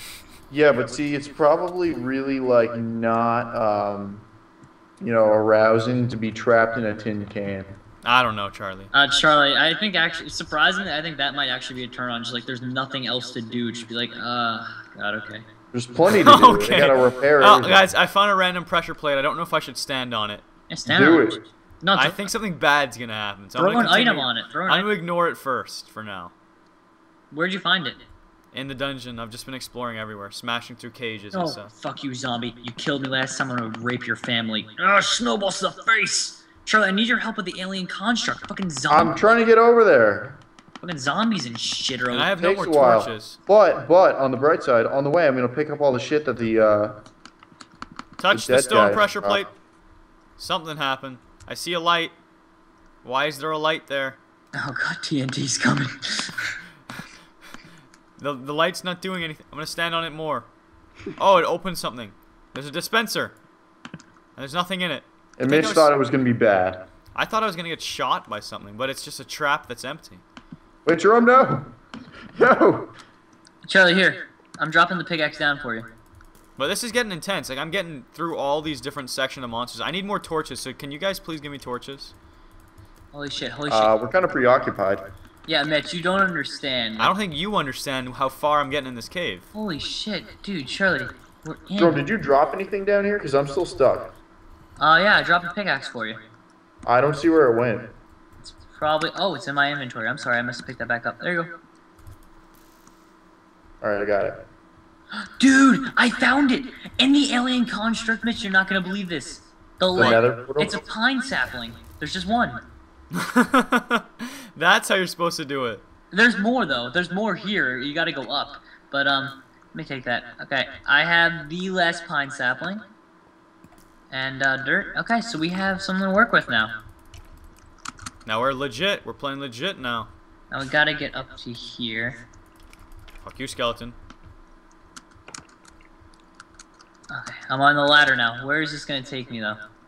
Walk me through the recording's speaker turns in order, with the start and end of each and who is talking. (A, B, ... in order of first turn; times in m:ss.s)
0:00.5-0:04.2 A
0:05.0-0:07.8 A
0:08.0-0:08.9 B
0:08.9-0:15.4 C
0:15.7-0:17.9 A
0:16.2-0:20.4 B
0:20.7-0:22.2 C
0:20.8-0:21.4 A
0:21.9-0:26.3 B
0:23.6-0:24.9 C
0:27.3-0:28.0 C
0:28.5-0:31.7 B
0:31.3-0:39.2 C
0:38.9-0:40.4 A
0:40.8-0:42.3 C
0:42.1-0:43.4 B
0:42.4-0:47.0 A
0:48.2-0:49.5 B
0:48.3-0:49.5 A
0:50.4-0:52.1 B
0:53.0-0:54.2 B
0:54.5-0:56.5 C
0:58.2-1:00.5 B
1:01.2-1:03.4 B
1:04.4-1:05.9 B
1:05.4-1:06.8 A
1:07.1-1:10.2 B
1:10.8-1:11.7 A
1:12.3-1:12.9 A
1:13.6-1:15.9 C
1:16.6-1:22.1 B
1:23.1-1:23.9 C
1:23.7-1:25.1 A
1:25.4-1:27.1 C
1:27.0-1:29.5 B
1:29.5-1:32.0 C
1:31.8-1:34.1 A
1:34.8-1:36.2 C
1:36.8-1:37.9 A
1:38.4-1:41.5 C
1:43.8-1:44.4 A
1:45.2-1:52.6 C
1:49.9-1:50.8 A
1:53.1-1:55.8 B
1:56.1-2:02.8 C
2:04.1-2:06.8 C
2:08.2-2:10.1 B
2:10.5-2:12.2 C
2:13.2-2:13.9 B
2:17.1-2:19.6 C